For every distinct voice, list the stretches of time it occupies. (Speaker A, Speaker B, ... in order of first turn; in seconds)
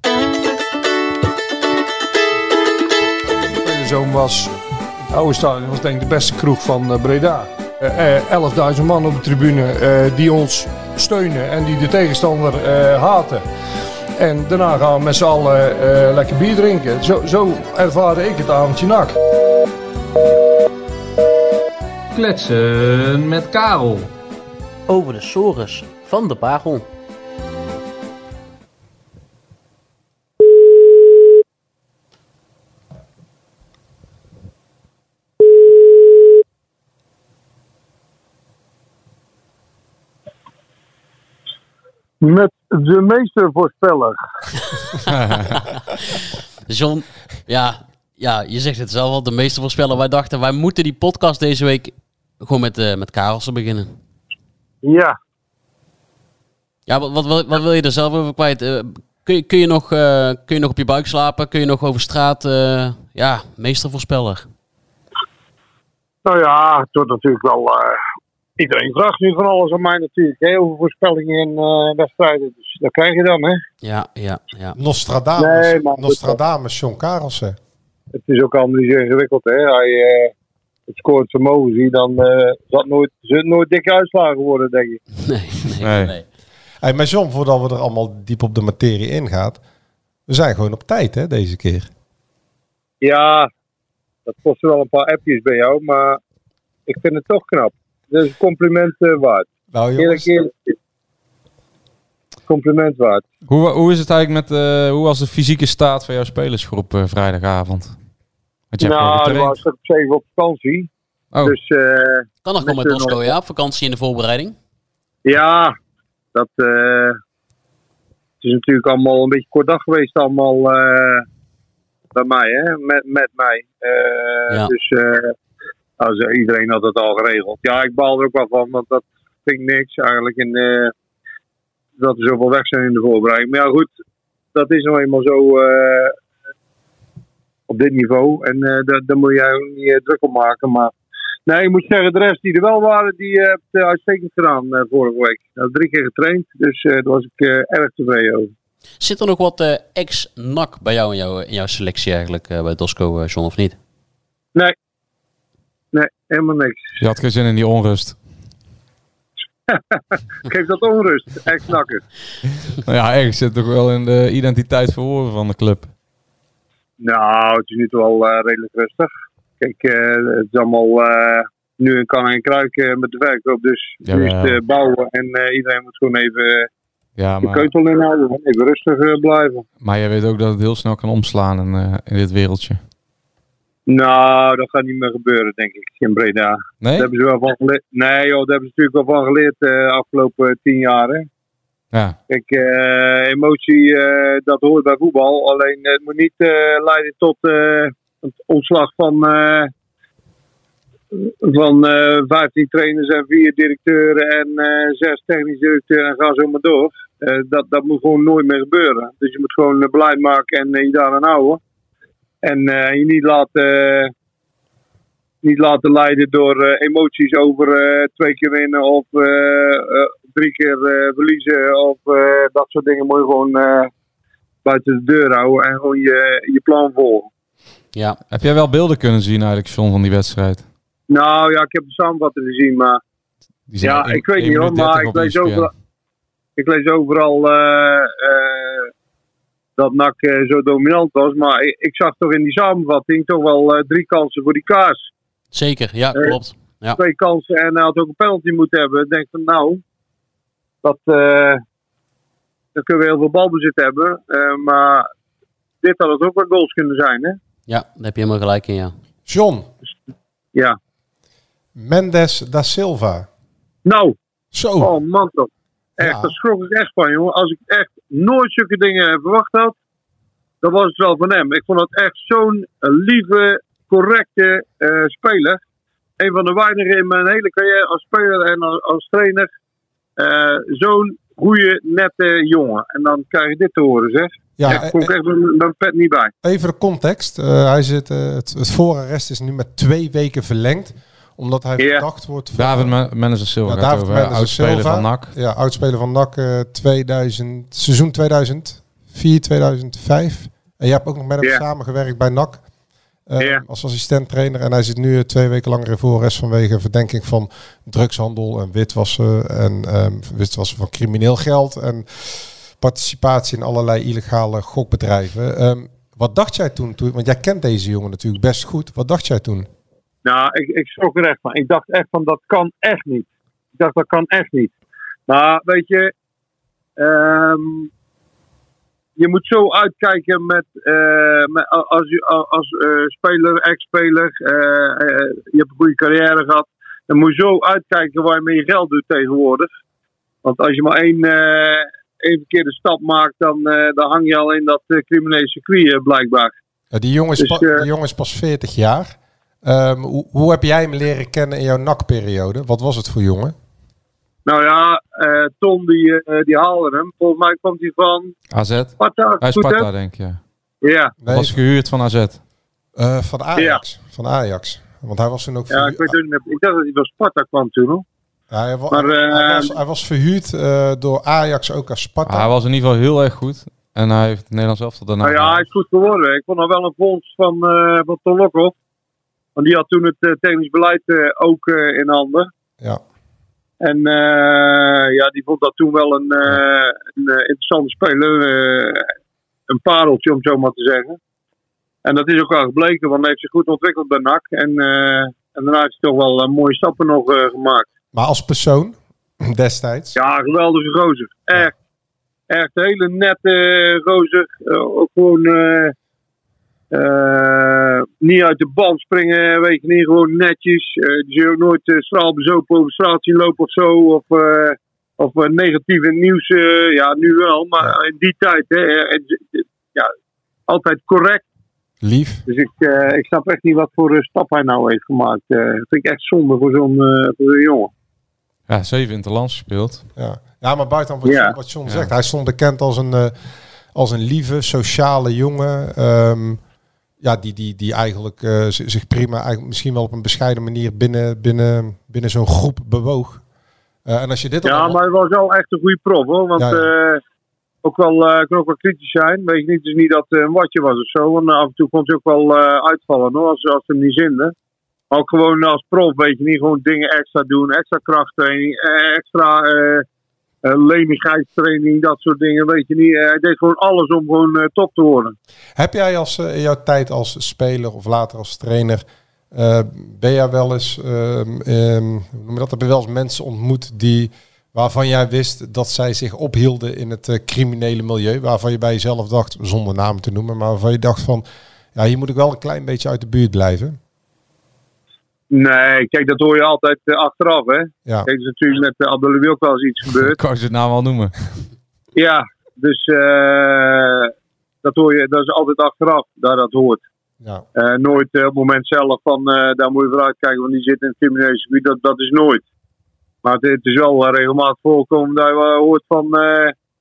Speaker A: 3.6-4.5, 5.1-13.4, 14.2-19.1
Speaker B: 22.2-24.1, 45.1-45.6, 85.8-86.2, 103.5-108.0, 108.7-109.6, 111.3-111.6, 157.0-158.2, 162.7-165.9, 174.1-174.6, 177.2-177.7, 179.8-182.8, 186.8-187.1, 228.3-230.7, 233.7-235.7, 292.5-295.3, 358.5-360.4, 361.3-362.4, 372.3-375.6, 428.7-430.0, 490.1-491.3
Speaker C: 24.9-26.9, 46.6-53.9, 56.9-64.5, 73.8-74.8, 85.2-86.2, 112.4-114.6, 149.0-153.8, 227.9-228.2, 245.5-247.0, 257.7-258.9
Speaker D: 42.2-44.2, 54.8-55.1, 66.2-68.0, 68.6-73.6, 75.4-76.4, 78.1-80.3, 80.9-85.0, 93.0-93.5, 94.3-96.2, 96.9-100.7, 102.5-103.2, 108.8-110.9, 111.4-113.3, 115.2-115.8, 116.3-117.2, 118.4-121.2, 122.2-125.3, 126.0-130.9, 132.0-133.9, 134.5-136.2, 137.7-140.9, 141.5-148.5, 155.9-156.9, 159.7-162.0, 167.0-176.7, 177.4-179.7, 183.9-191.3, 192.3-199.7, 201.1-211.6, 212.4-214.1, 215.4-223.9, 224.7-227.3, 231.1-233.0, 233.8-235.7, 236.6-238.9, 239.8-245.0, 247.0-249.8, 250.8-251.6, 252.8-255.1, 255.8-257.4, 263.8-264.1, 264.8-269.8, 270.6-275.6, 276.2-279.5, 280.2-286.3, 291.8-292.0, 320.2-324.8, 325.3-326.1, 327.0-327.9, 329.2-339.7, 340.4-346.5, 347.4-347.8, 354.4-358.3, 359.0-359.9, 360.8-361.1, 363.6-363.8, 365.7-368.0, 368.9-369.7, 375.2-378.8, 379.6-382.5, 383.8-389.1, 389.7-391.2, 392.0-397.9, 400.1-401.7, 402.5-405.9, 406.9-420.1, 420.7-421.4, 422.5-427.9, 431.2-431.5, 444.6-447.2, 447.8-454.5, 455.1-460.0, 460.6-465.3, 485.5-490.4, 492.1-494.3, 494.8-497.0, 497.8-502.6, 503.4-506.7
Speaker E: 74.8-77.6, 86.8-89.6, 90.3-91.9, 99.7-100.3, 259.3-259.7, 261.8-263.3, 264.5-264.9, 266.0-266.3, 284.6-285.1, 286.4-292.9, 293.6-302.6, 303.3-319.7, 346.9-353.5, 361.2-361.6, 362.9-366.1, 368.5-372.5, 398.1-400.1, 422.0-422.4, 430.2-433.3, 433.9-436.6, 437.2-443.4, 444.1-445.0, 446.6-446.9, 465.8-484.0